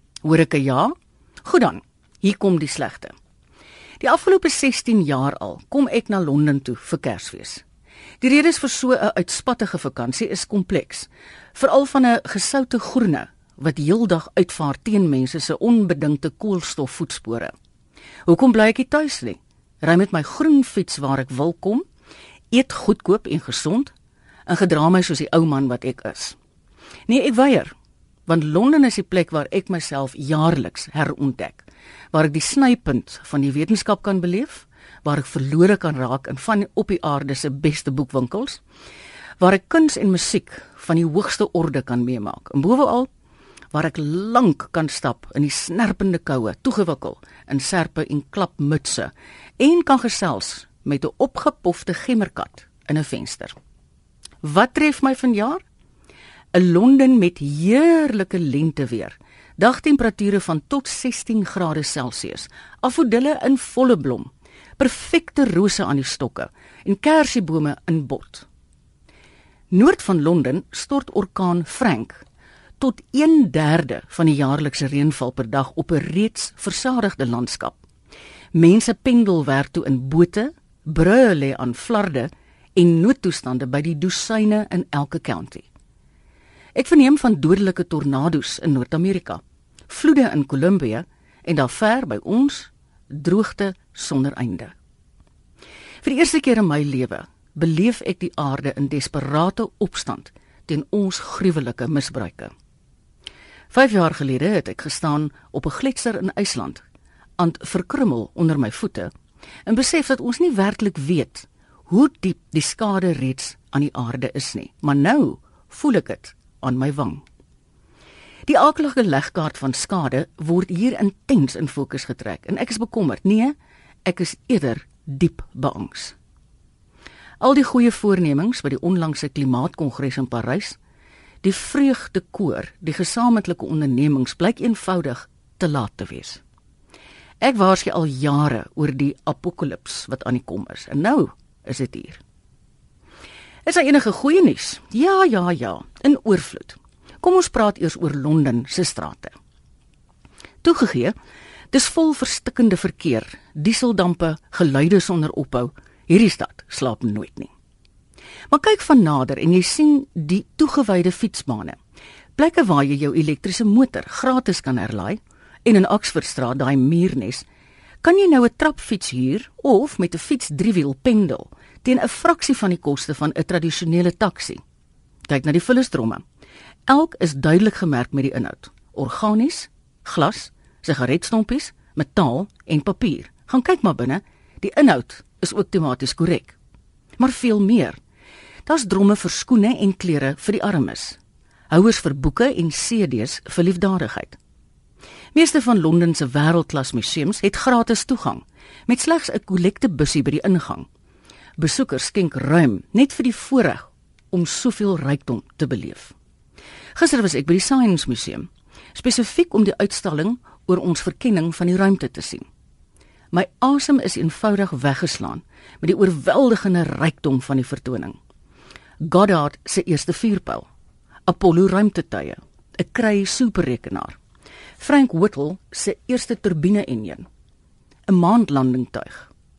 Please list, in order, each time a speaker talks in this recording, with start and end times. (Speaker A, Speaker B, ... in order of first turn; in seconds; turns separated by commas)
Speaker A: 0.2-0.9, Speaker A: 1.4-3.1, Speaker A: 4.0-7.6, Speaker A: 8.2-17.5, Speaker A: 18.3-21.9, Speaker A: 22.5-23.9, Speaker A: 24.5-26.4, Speaker A: 27.1-27.7, Speaker A: 28.3-38.6, Speaker A: 39.4-43.1, Speaker A: 43.7-53.5, Speaker A: 54.4-55.6, Speaker A: 56.5-68.5, Speaker A: 69.7-72.2, Speaker A: 72.8-77.8, Speaker A: 78.5-85.7, Speaker A: 86.8-94.8, Speaker A: 96.0-102.5, Speaker A: 103.7-106.8, Speaker A: 107.4-109.1, Speaker A: 109.7-117.2, Speaker A: 118.5-126.2, Speaker A: 127.4-130.8, Speaker A: 131.4-136.4, Speaker A: 137.4-142.2, Speaker A: 143.7-149.3, Speaker A: 150.6-151.1, Speaker A: 151.7-157.5, Speaker A: 158.5-161.8, Speaker A: 162.4-167.4, Speaker A: 168.0-174.6, Speaker A: 175.3-176.2, Speaker A: 176.9-186.6, Speaker A: 187.2-188.0, Speaker A: 188.7-191.2, Speaker A: 191.7-194.4, Speaker A: 195.3-200.9, Speaker A: 201.6-206.1, Speaker A: 206.9-212.4, Speaker A: 213.3-218.2, Speaker A: 219.0-220.7, Speaker A: 221.2-224.2, Speaker A: 224.8-227.2, Speaker A: 228.1-229.3